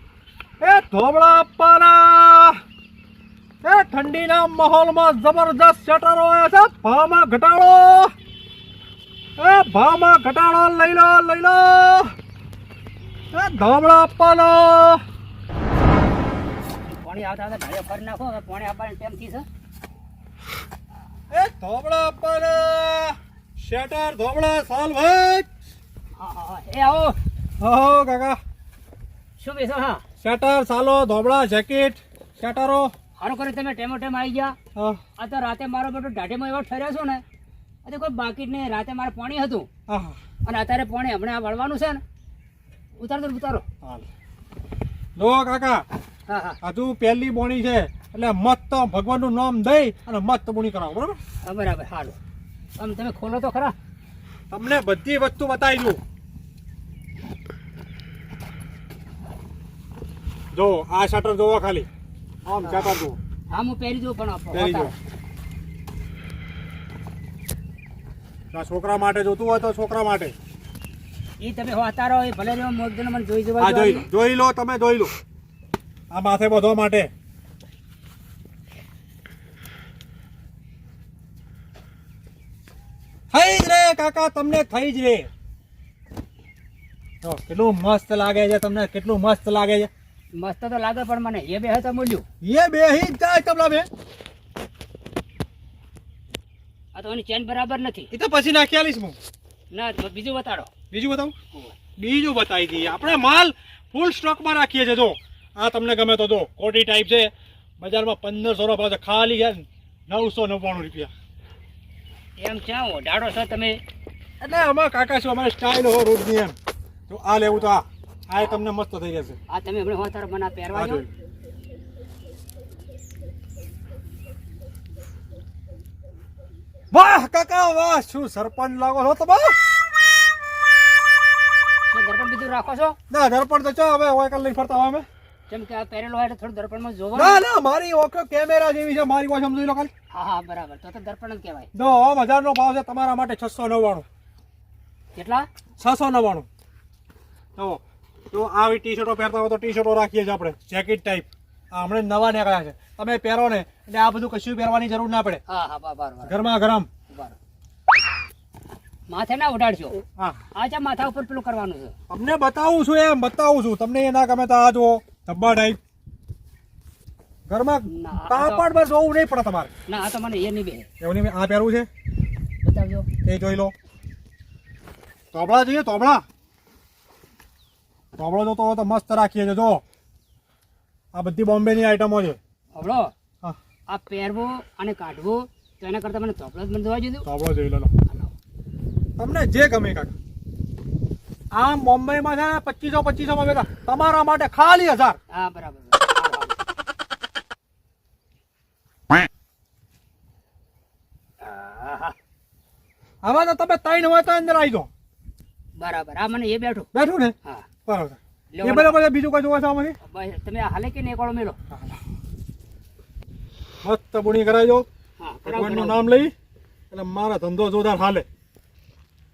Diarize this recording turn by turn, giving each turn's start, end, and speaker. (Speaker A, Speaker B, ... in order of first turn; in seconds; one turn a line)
Speaker A: 0.6-2.6
Speaker A: 3.6-8.1
Speaker A: 9.4-12.1
Speaker A: 13.3-15.0
Speaker B: 16.9-19.4
Speaker A: 21.3-25.5
Speaker B: 26.2-27.1
Speaker A: 27.6-28.4
Speaker B: 29.4-30.0
Speaker A: 30.2-32.9
Speaker B: 33.2-34.5
Speaker A: 34.7-35.0
Speaker B: 35.2-37.2
Speaker B: 37.8-39.7
Speaker A: 39.9-40.2
Speaker B: 40.5-42.0
Speaker B: 43.0-43.6
Speaker A: 45.2-45.8
Speaker B: 46.3-46.6
Speaker A: 46.6-51.2
Speaker B: 51.4-52.2
Speaker B: 52.8-53.7
Speaker A: 54.5-56.0
Speaker A: 60.5-61.9
Speaker A: 62.5-63.2
Speaker B: 62.6-62.9
Speaker B: 63.5-64.9
Speaker A: 64.5-64.9
Speaker A: 68.5-70.3
Speaker B: 71.4-74.0
Speaker A: 73.6-75.1
Speaker A: 76.1-77.1
Speaker A: 83.3-85.3
Speaker A: 87.2-89.9
Speaker B: 90.4-92.2
Speaker A: 92.4-93.9
Speaker B: 96.9-98.1
Speaker A: 98.1-99.2
Speaker B: 99.7-100.7
Speaker A: 100.9-101.4
Speaker A: 102.0-111.1
Speaker B: 112.4-113.8
Speaker A: 114.4-116.5
Speaker A: 117.1-119.4
Speaker B: 119.5-121.0
Speaker A: 120.7-121.1
Speaker A: 126.9-129.6
Speaker B: 131.9-133.0
Speaker A: 133.1-135.1
Speaker B: 135.5-137.4
Speaker A: 137.1-139.9
Speaker B: 140.1-141.7
Speaker A: 141.7-144.0
Speaker B: 145.2-145.5
Speaker A: 145.8-146.5
Speaker A: 148.3-155.4
Speaker B: 155.5-156.4
Speaker A: 156.2-156.9
Speaker B: 159.1-160.0
Speaker B: 160.6-161.9
Speaker A: 162.1-165.8
Speaker A: 167.5-169.7
Speaker B: 167.9-168.7
Speaker B: 169.9-170.9
Speaker A: 171.0-171.9
Speaker B: 172.6-173.1
Speaker A: 173.2-173.7
Speaker A: 175.3-176.2
Speaker A: 178.2-179.8
Speaker A: 181.1-182.4
Speaker B: 182.7-183.1
Speaker B: 183.9-187.2
Speaker A: 187.2-187.9
Speaker A: 189.2-190.1
Speaker A: 191.5-195.2
Speaker B: 195.3-196.6
Speaker B: 201.4-202.1
Speaker A: 203.2-204.9
Speaker B: 205.8-206.9
Speaker A: 206.9-207.3
Speaker A: 207.9-210.0
Speaker B: 208.5-209.0
Speaker B: 210.0-211.6
Speaker A: 211.7-212.0
Speaker A: 213.8-214.8
Speaker B: 215.2-216.0
Speaker A: 215.4-216.3
Speaker A: 216.9-218.2